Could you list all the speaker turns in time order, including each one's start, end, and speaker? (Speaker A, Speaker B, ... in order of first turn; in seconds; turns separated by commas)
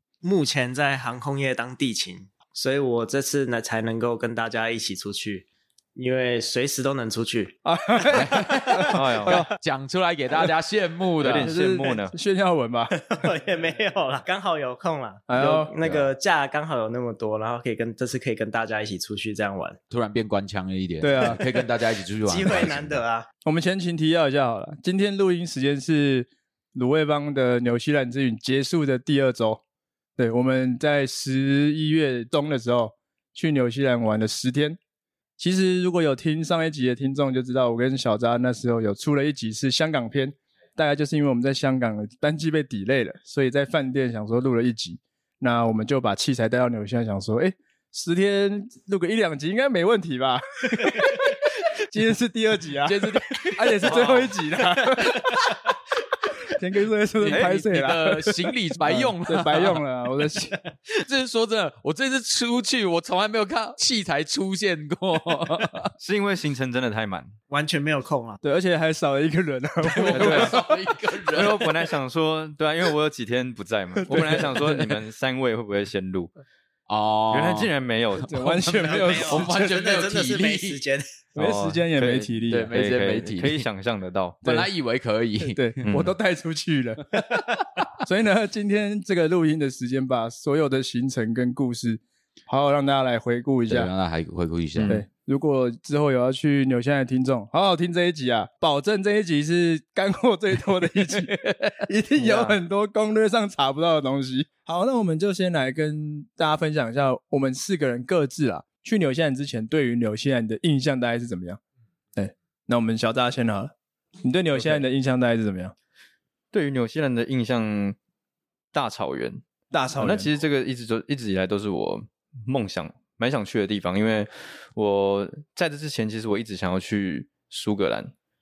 Speaker A: 0.2-7.7, Speaker B: 7.6-9.5, Speaker C: 8.1-11.5, Speaker D: 8.9-9.4, Speaker D: 11.2-12.1, Speaker B: 11.3-13.0, Speaker A: 12.9-19.8, Speaker B: 15.3-15.7, Speaker D: 15.4-16.1, Speaker C: 19.9-23.0, Speaker B: 21.0-21.4, Speaker A: 22.2-23.2, Speaker B: 23.4-29.6, Speaker B: 30.2-34.8, Speaker B: 35.4-55.4, Speaker C: 52.8-54.3, Speaker D: 53.9-54.1, Speaker C: 55.0-55.5, Speaker B: 56.5-60.6, Speaker C: 57.2-59.8, Speaker D: 57.2-57.5, Speaker C: 60.9-65.9, Speaker D: 66.0-67.3, Speaker A: 67.5-68.4, Speaker B: 68.4-70.7, Speaker C: 69.8-71.7, Speaker D: 70.1-70.6, Speaker D: 71.3-76.3, Speaker B: 74.0-74.9, Speaker C: 76.9-77.7, Speaker D: 77.3-78.6, Speaker B: 78.2-79.5, Speaker C: 78.7-80.8, Speaker A: 78.8-81.2, Speaker B: 81.3-82.7, Speaker D: 81.3-84.4, Speaker C: 82.5-83.6, Speaker B: 84.4-84.7, Speaker C: 84.4-85.7, Speaker B: 85.4-87.2, Speaker D: 85.8-86.1, Speaker B: 88.0-93.9, Speaker C: 93.7-95.0, Speaker D: 94.8-95.0, Speaker B: 94.9-111.6, Speaker C: 101.1-101.7, Speaker B: 112.2-115.7, Speaker D: 114.5-114.8, Speaker D: 116.5-118.0, Speaker D: 118.7-119.4, Speaker B: 119.7-120.3, Speaker D: 120.0-128.1